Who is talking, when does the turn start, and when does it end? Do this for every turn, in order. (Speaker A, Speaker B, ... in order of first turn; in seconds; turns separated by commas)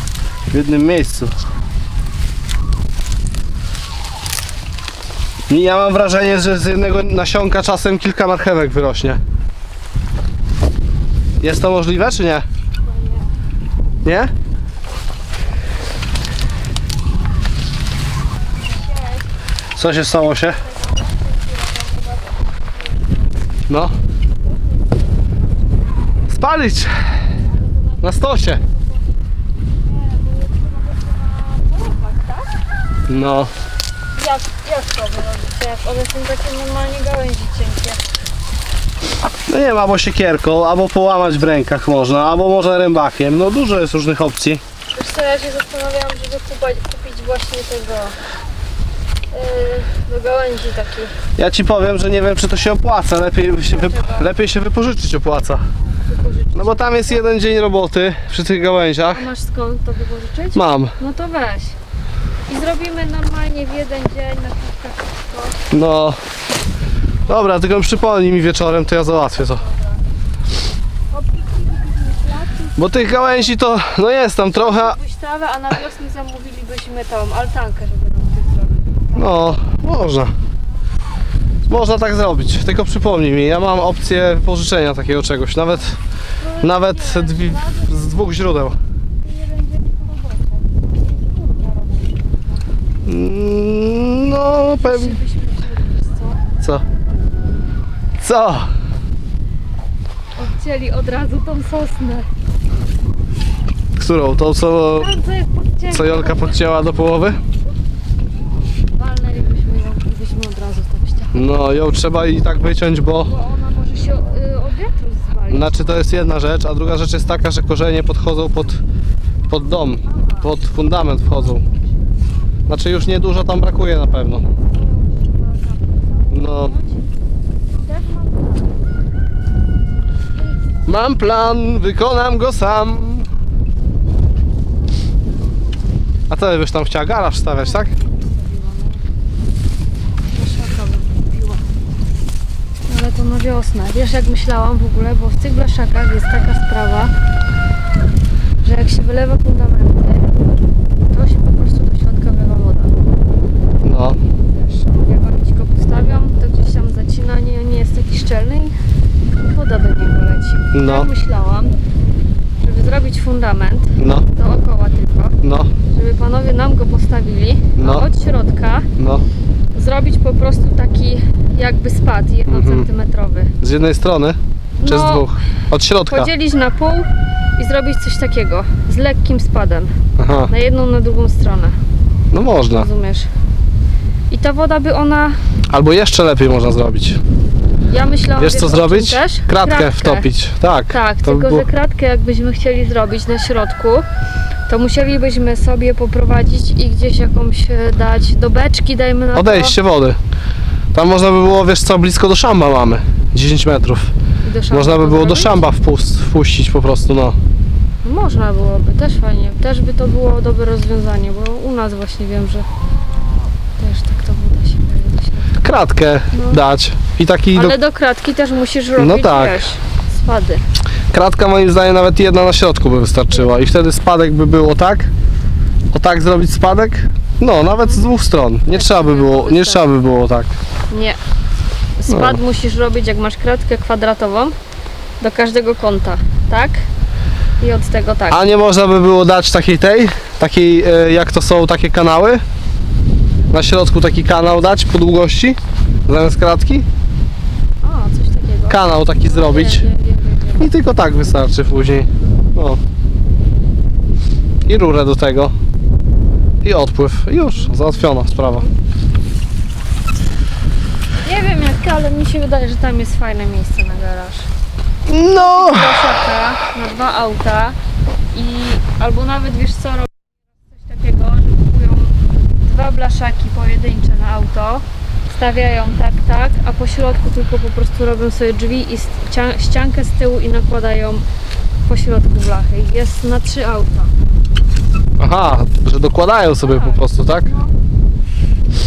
Speaker A: 0.5-1.3, Speaker A: 5.5-9.2, Speaker A: 11.4-12.4, Speaker B: 12.8-13.3, Speaker A: 14.0-14.3, Speaker B: 18.6-19.3, Speaker A: 19.8-20.6, Speaker B: 20.4-23.3, Speaker A: 23.7-23.9, Speaker B: 24.4-25.4, Speaker A: 26.3-26.9, Speaker B: 27.5-28.8, Speaker A: 28.0-28.6, Speaker B: 29.8-32.6, Speaker A: 33.1-33.5, Speaker B: 34.1-38.0, Speaker A: 39.5-44.6, Speaker B: 44.9-48.2, Speaker B: 49.3-51.1, Speaker A: 51.4-55.6, Speaker B: 53.6-54.3, Speaker B: 56.0-57.2, Speaker A: 56.5-59.3, Speaker B: 59.1-61.8, Speaker A: 60.5-61.0, Speaker B: 62.5-65.7, Speaker A: 65.7-66.2, Speaker A: 67.3-69.6, Speaker B: 69.4-70.0, Speaker B: 71.1-73.5, Speaker A: 72.8-75.0, Speaker B: 74.5-79.6, Speaker A: 79.2-80.3, Speaker A: 81.7-86.0, Speaker B: 86.4-88.3, Speaker A: 86.6-88.8, Speaker B: 89.2-92.6, Speaker A: 93.1-95.2, Speaker B: 94.6-96.4, Speaker A: 98.2-98.7, Speaker B: 100.4-102.3, Speaker A: 104.0-105.1, Speaker B: 104.9-106.7, Speaker A: 105.9-107.4, Speaker B: 108.9-111.5, Speaker A: 111.3-113.3, Speaker B: 113.2-116.0, Speaker A: 115.5-118.8, Speaker A: 119.5-121.6, Speaker B: 120.1-120.5, Speaker A: 122.7-124.4, Speaker B: 124.6-127.0, Speaker A: 126.3-126.7, Speaker B: 127.8-128.8, Speaker A: 130.9-133.3, Speaker A: 136.3-137.9, Speaker B: 137.5-139.0, Speaker B: 140.3-141.6, Speaker B: 142.9-147.1, Speaker B: 148.6-150.6, Speaker B: 151.1-153.2, Speaker A: 153.8-154.2, Speaker B: 154.4-158.8, Speaker B: 159.4-161.8, Speaker A: 160.7-161.1, Speaker B: 162.6-168.9, Speaker A: 164.0-164.3, Speaker A: 165.4-165.7, Speaker A: 167.8-168.1, Speaker A: 169.0-169.2, Speaker B: 169.7-173.5, Speaker A: 172.5-172.9, Speaker A: 173.6-176.3, Speaker B: 174.8-175.4, Speaker B: 176.1-180.0, Speaker A: 180.2-180.5, Speaker B: 180.5-181.8, Speaker A: 182.3-182.9, Speaker B: 182.6-183.3, Speaker B: 184.3-185.4, Speaker A: 185.7-187.2, Speaker B: 187.9-190.3, Speaker A: 188.4-191.7, Speaker B: 190.9-194.1, Speaker B: 194.7-199.8, Speaker A: 199.3-200.2, Speaker A: 200.9-204.1, Speaker B: 204.4-205.6, Speaker A: 204.7-207.4, Speaker B: 208.0-212.7, Speaker B: 213.8-215.6, Speaker A: 215.6-217.8, Speaker B: 216.3-216.6, Speaker B: 217.5-220.6, Speaker A: 219.0-219.7, Speaker A: 221.1-225.1, Speaker B: 223.3-223.6, Speaker A: 225.9-230.6, Speaker B: 227.8-228.1, Speaker B: 228.7-229.9, Speaker B: 230.9-231.2, Speaker B: 232.0-234.6, Speaker A: 232.1-232.4, Speaker B: 235.2-236.8, Speaker B: 237.6-238.5, Speaker A: 238.3-242.4, Speaker A: 243.5-246.9, Speaker B: 247.8-250.7, Speaker A: 248.7-249.8, Speaker A: 250.6-252.8, Speaker A: 254.7-255.5, Speaker A: 256.6-258.7, Speaker B: 257.5-258.1, Speaker B: 261.2-264.5, Speaker A: 265.1-266.1, Speaker B: 265.3-267.8, Speaker B: 268.3-281.2, Speaker B: 281.9-284.1, Speaker A: 285.2-287.5, Speaker B: 286.6-287.7